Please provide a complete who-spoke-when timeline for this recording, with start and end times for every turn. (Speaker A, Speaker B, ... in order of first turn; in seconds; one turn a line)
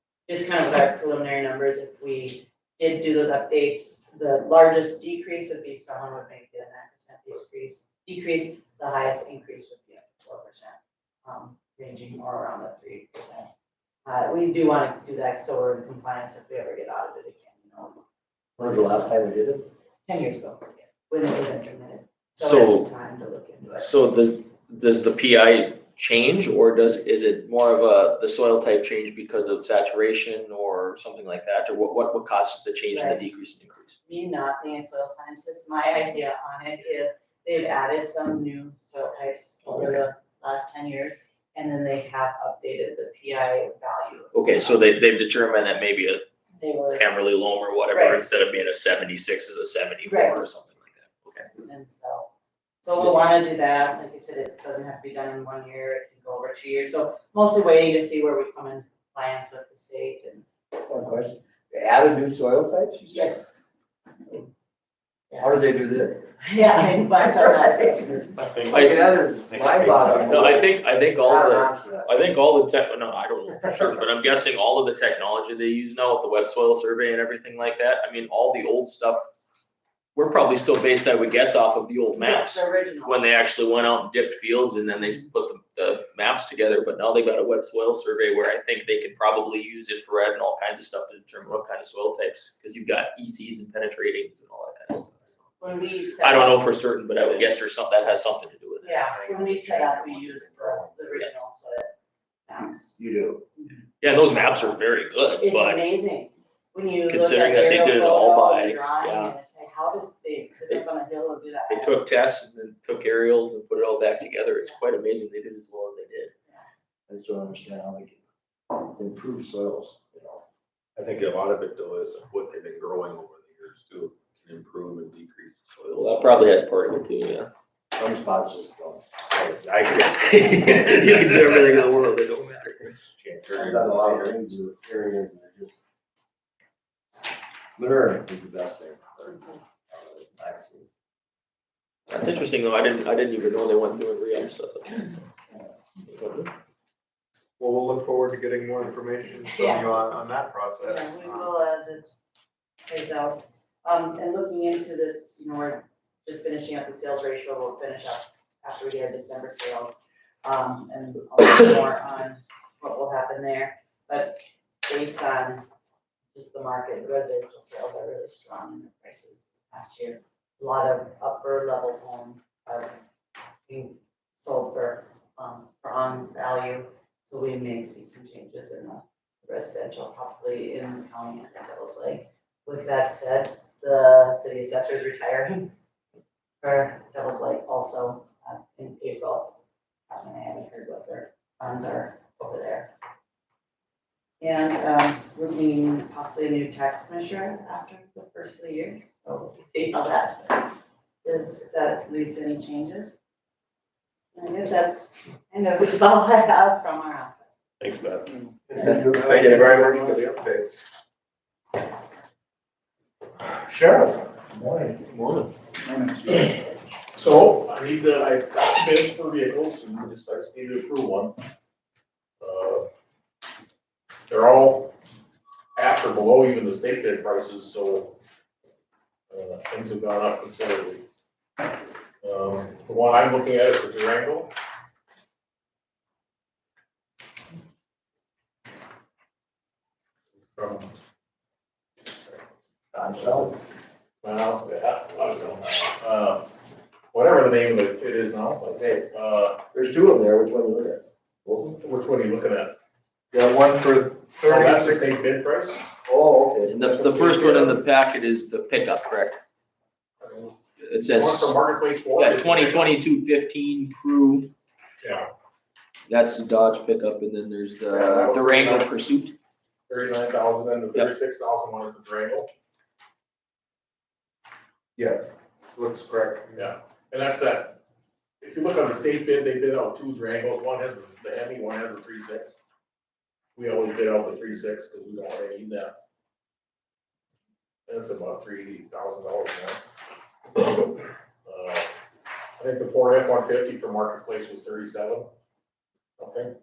Speaker A: 0.3-13.5
Speaker A: 14.1-18.1
Speaker B: 18.6-19.6
Speaker A: 18.6-18.9
Speaker A: 20.1-23.9
Speaker C: 22.4-22.9
Speaker C: 23.8-34.0
Speaker A: 32.9-33.2
Speaker A: 34.1-44.9
Speaker C: 44.3-46.2
Speaker A: 46.5-47.0
Speaker C: 46.9-51.5
Speaker A: 47.9-48.2
Speaker A: 50.1-50.4
Speaker A: 51.6-52.3
Speaker A: 52.8-60.5
Speaker B: 60.9-63.4
Speaker A: 63.1-63.5
Speaker B: 65.4-66.2
Speaker A: 66.4-68.4
Speaker B: 68.5-70.7
Speaker D: 68.5-68.9
Speaker C: 68.7-69.1
Speaker D: 69.5-70.3
Speaker C: 70.2-79.2
Speaker B: 71.2-72.2
Speaker C: 80.2-95.5
Speaker A: 82.1-83.3
Speaker A: 95.6-96.6
Speaker C: 96.2-99.1
Speaker A: 98.8-101.9
Speaker D: 99.2-101.0
Speaker A: 102.5-103.0
Speaker B: 103.0-103.4
Speaker A: 103.6-104.8
Speaker C: 104.0-105.8
Speaker A: 105.4-112.0
Speaker C: 107.1-109.4
Speaker C: 111.7-116.3
Speaker B: 117.1-118.2
Speaker B: 118.7-120.4
Speaker D: 121.0-125.8
Speaker C: 125.8-127.5
Speaker B: 128.0-129.8
Speaker C: 130.0-133.0
Speaker D: 133.2-134.3
Speaker B: 133.5-135.8
Speaker B: 137.8-140.8
Speaker C: 142.1-145.2
Speaker C: 146.1-146.5
Speaker E: 147.6-151.5
Speaker A: 149.5-150.0
Speaker A: 150.8-152.1
Speaker A: 152.9-165.7
Speaker A: 166.3-173.0
Speaker A: 173.7-185.7
Speaker A: 186.6-189.6
Speaker A: 190.1-192.9
Speaker A: 194.4-200.7
Speaker A: 201.2-203.2
Speaker A: 204.3-207.6
Speaker C: 207.8-208.2
Speaker E: 208.7-210.8
Speaker C: 208.8-210.2
Speaker E: 213.7-214.2
Speaker C: 214.6-215.5
Speaker F: 217.2-221.4
Speaker F: 222.4-222.8
Speaker F: 224.3-224.9
Speaker F: 225.8-228.2
Speaker F: 229.3-231.0
Speaker F: 232.2-234.5
Speaker F: 240.6-240.9
Speaker B: 242.9-243.5
Speaker F: 244.2-246.4
Speaker F: 247.1-249.7
Speaker B: 248.8-249.1
Speaker B: 249.7-251.8
Speaker F: 251.8-252.7
Speaker E: 253.3-255.1
Speaker F: 254.4-255.9
Speaker B: 256.0-256.8
Speaker C: 256.6-259.4
Speaker F: 256.8-257.8
Speaker F: 260.2-263.0
Speaker C: 260.8-261.5
Speaker C: 262.1-264.5
Speaker F: 265.0-265.3
Speaker C: 266.1-269.4
Speaker F: 267.9-268.9
Speaker F: 269.9-272.5
Speaker E: 275.0-275.2
Speaker E: 275.7-276.7
Speaker F: 276.6-277.8
Speaker F: 278.4-282.5
Speaker F: 283.6-285.9
Speaker F: 287.9-289.8
Speaker F: 291.4-291.9
Speaker F: 292.6-295.3
Speaker F: 296.2-296.5